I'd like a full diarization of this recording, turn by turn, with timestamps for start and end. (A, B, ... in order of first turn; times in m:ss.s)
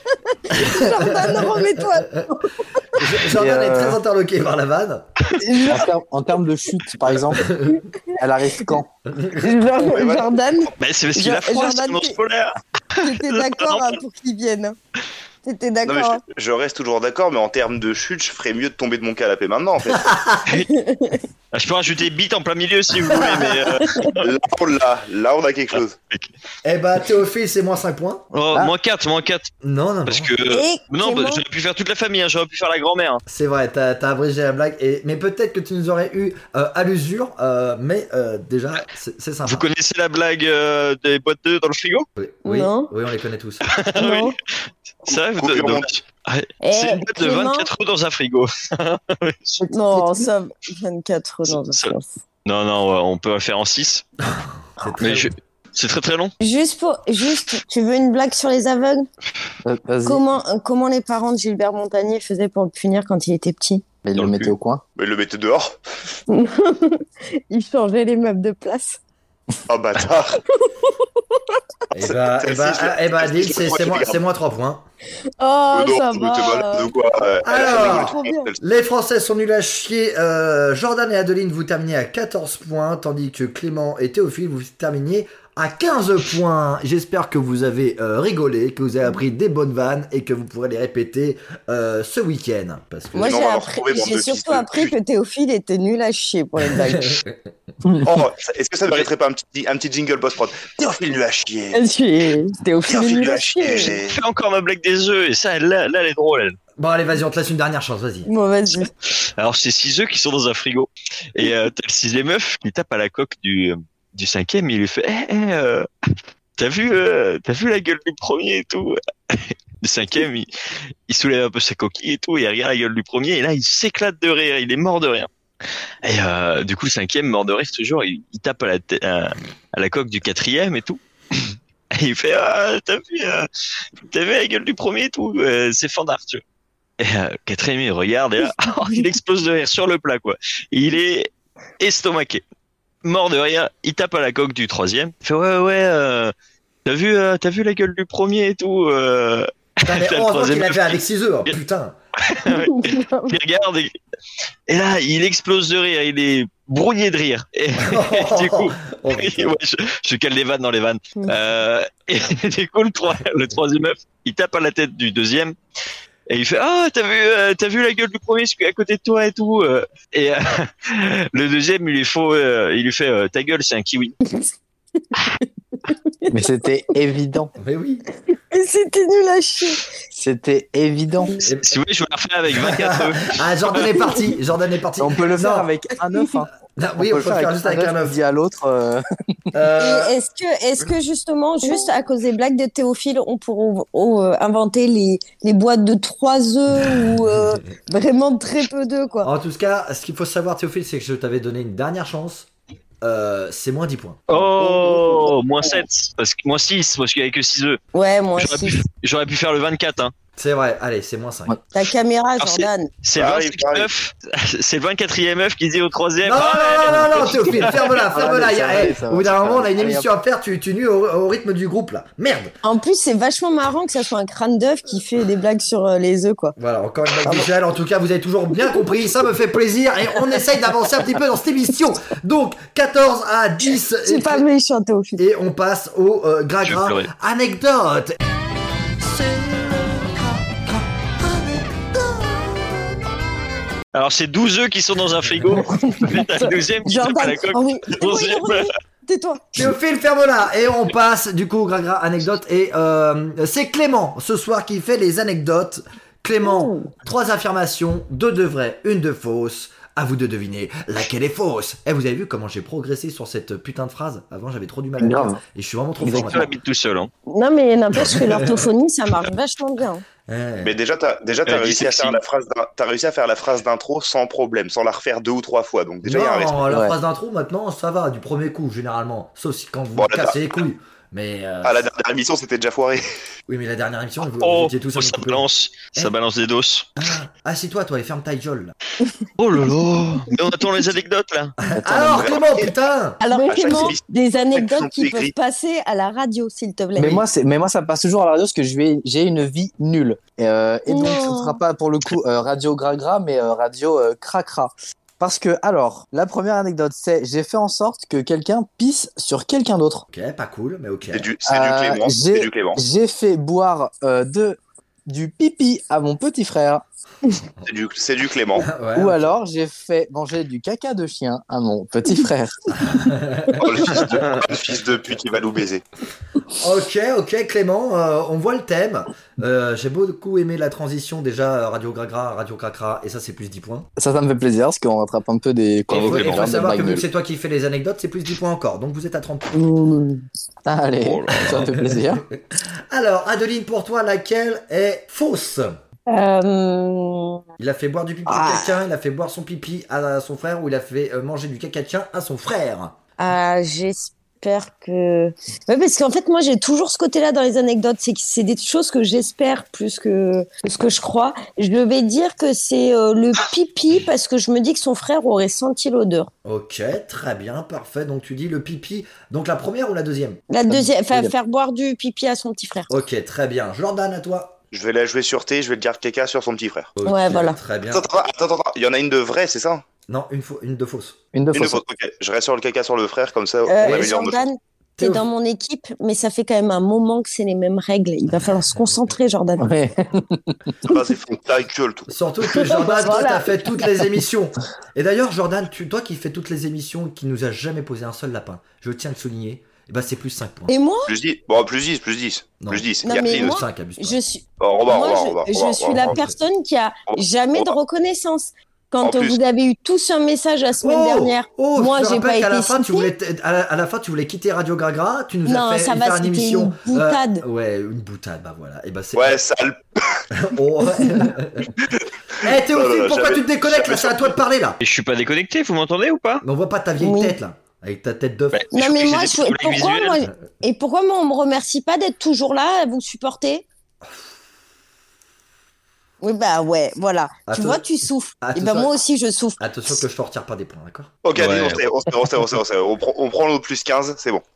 0:00.3-0:02.4 A
0:00.5-0:02.3 B
0:02.9-0:05.1 B
0:03.3-0:04.0 C
0:05.4-0:07.5 C
0:05.5-0:05.8 A
0:07.3-0:07.8 B
0:07.7-0:08.8 A
0:08.2-0:08.9 C
0:09.0-0:09.5 B
0:09.4-0:12.2 A
0:09.8-0:10.4 D
0:10.8-0:14.0 E
0:13.0-0:14.8 A
0:15.4-0:16.2 A
0:15.8-0:20.1 D
0:19.9-0:20.4 B
0:20.6-0:21.2 A
0:21.5-0:24.2 E
0:23.0-0:23.7 B
0:23.8-0:24.1 A
0:24.2-0:25.9 D
0:25.7-0:26.3 E
0:26.6-0:28.3 B
0:28.3-0:29.5 E
0:29.6-0:30.4 B
0:30.0-0:33.2 E
0:30.5-0:31.4 A
0:33.2-0:39.7 B
0:39.4-0:42.0 E
0:42.2-0:43.6 B
0:42.4-0:42.9 A
0:43.6-0:44.3 E
0:43.9-0:44.4 A
0:45.0-0:49.6 E
0:45.1-0:45.9 D
0:46.6-0:47.7 A
0:49.6-0:50.0 C
0:49.7-0:52.1 A
0:51.5-0:51.9 E
0:52.4-0:54.0 E
0:54.2-0:55.3 B
0:55.0-0:56.3 E
0:56.4-0:59.1 A
0:59.6-1:00.2 C
1:00.0-1:03.8 A
1:04.0-1:04.8 C
1:04.1-1:04.5 E
1:05.0-1:05.8 D
1:06.3-1:09.0 A
1:09.7-1:10.4 D
1:10.6-1:10.9 A
1:11.9-1:14.8 B
1:12.1-1:14.2 D
1:15.4-1:16.9 A
1:15.7-1:18.6 D
1:17.4-1:33.4 B
1:17.5-1:18.5 A
1:33.1-1:37.2 A
1:33.2-1:34.9 D
1:36.7-1:37.4 B
1:37.9-1:41.8 D
1:41.7-1:44.0 A
1:42.9-1:44.2 D
1:44.1-1:46.6 E
1:46.8-1:48.3 B
1:48.3-1:48.9 A
1:49.2-1:55.9 E
1:56.6-2:00.5 E
2:01.1-2:05.3 E
2:06.0-2:13.5 E
2:14.1-2:16.4 E
2:17.0-2:22.4 E
2:23.0-2:26.3 E
2:26.8-2:31.0 E
2:29.8-2:32.0 B
2:32.2-2:33.9 E
2:32.5-2:33.4 A
2:34.7-2:45.5 E
2:37.8-2:39.6 B
2:46.3-2:54.2 E
2:55.9-2:56.3 A
2:56.3-2:57.5 C
2:57.6-2:58.0 B
2:58.3-2:59.9 A
3:00.1-3:01.4 C
3:01.4-3:01.8 B
3:01.6-3:03.9 E
3:02.5-3:05.7 B
3:05.0-3:09.0 C
3:06.8-3:08.2 B
3:09.5-3:10.1 B
3:09.8-3:19.3 A
3:19.2-3:22.5 B
3:23.0-3:24.5 B
3:24.3-3:27.8 E
3:27.9-3:28.8 A
3:28.4-3:30.1 E
3:30.4-3:31.5 B
3:31.7-3:32.9 A
3:32.4-3:38.0 E
3:33.2-3:33.9 D
3:36.2-3:42.5 B
3:37.3-3:40.1 C
3:42.6-3:46.6 A
3:46.6-3:54.4 B
3:54.0-3:55.2 A
3:55.2-3:58.2 B
3:56.6-3:57.1 E
3:59.0-4:02.8 B
4:03.9-4:08.7 E
4:05.6-4:09.6 A
4:09.5-4:26.5 B
4:16.4-4:16.9 A
4:25.0-4:25.4 C
4:26.0-4:27.1 E
4:26.1-4:26.3 C
4:27.3-4:30.0 A
4:27.9-4:28.7 B
4:30.3-4:30.8 B
4:30.6-4:36.7 D
4:31.4-4:32.2 E
4:36.0-4:41.9 B
4:36.7-4:37.0 C
4:40.0-4:40.5 D
4:41.6-4:43.0 D
4:43.5-4:45.4 B
4:44.4-4:46.9 E
4:47.0-4:48.7 B
4:49.4-4:51.5 E
4:51.7-4:53.2 B
4:51.7-4:52.2 C
4:52.0-4:52.7 D
4:53.2-4:57.2 A
4:53.3-4:55.3 D
4:57.0-5:10.0 C
5:00.9-5:01.6 A
5:10.1-5:11.3 B
5:11.1-5:12.8 D
5:11.4-5:16.8 C
5:17.6-5:18.7 D
5:18.6-5:19.3 B
5:18.9-5:22.7 C
5:22.8-5:24.0 B
5:23.6-5:25.8 D
5:26.5-5:33.9 B
5:34.0-5:37.0 C
5:35.9-5:36.5 E
5:35.9-5:39.6 B
5:39.5-5:40.2 A
5:40.6-5:42.2 C
5:41.0-5:41.6 E
5:41.3-5:45.8 B
5:46.1-5:47.4 A
5:47.6-5:52.9 B
5:48.2-5:48.8 A
5:53.2-6:06.3 A
6:06.4-6:10.4 B
6:10.5-6:12.9 A
6:10.7-6:11.3 C
6:12.9-6:14.6 B
6:14.7-6:16.9 D
6:17.0-6:18.1 B
6:17.0-6:17.6 A
6:17.9-6:19.8 D
6:20.1-6:21.2 B
6:21.3-6:21.8 C
6:21.5-6:24.4 D
6:23.6-6:29.7 A
6:25.0-6:25.2 B
6:29.6-6:30.7 C
6:30.8-6:32.1 D
6:32.1-6:40.7 B
6:32.5-6:33.8 A
6:40.7-6:41.1 A
6:41.1-6:43.5 D
6:42.6-6:44.2 B
6:43.0-6:53.1 A
6:44.6-6:46.2 D
6:46.0-6:46.3 B
6:47.1-6:47.7 D
6:49.0-6:49.4 D
6:50.8-6:59.4 B
6:55.4-6:57.4 A
6:59.1-7:00.2 D
7:00.3-7:01.8 B
7:01.0-7:01.2 A
7:01.8-7:04.4 D
7:02.4-7:04.8 B
7:04.8-7:06.4 E
7:06.4-7:08.7 B
7:07.0-7:07.4 A
7:08.5-7:10.2 E
7:08.7-7:13.6 A
7:14.0-7:14.3 B
7:16.2-7:20.0 A
7:17.5-7:19.0 B
7:19.6-7:21.1 B
7:21.2-7:24.4 D
7:21.3-7:21.8 E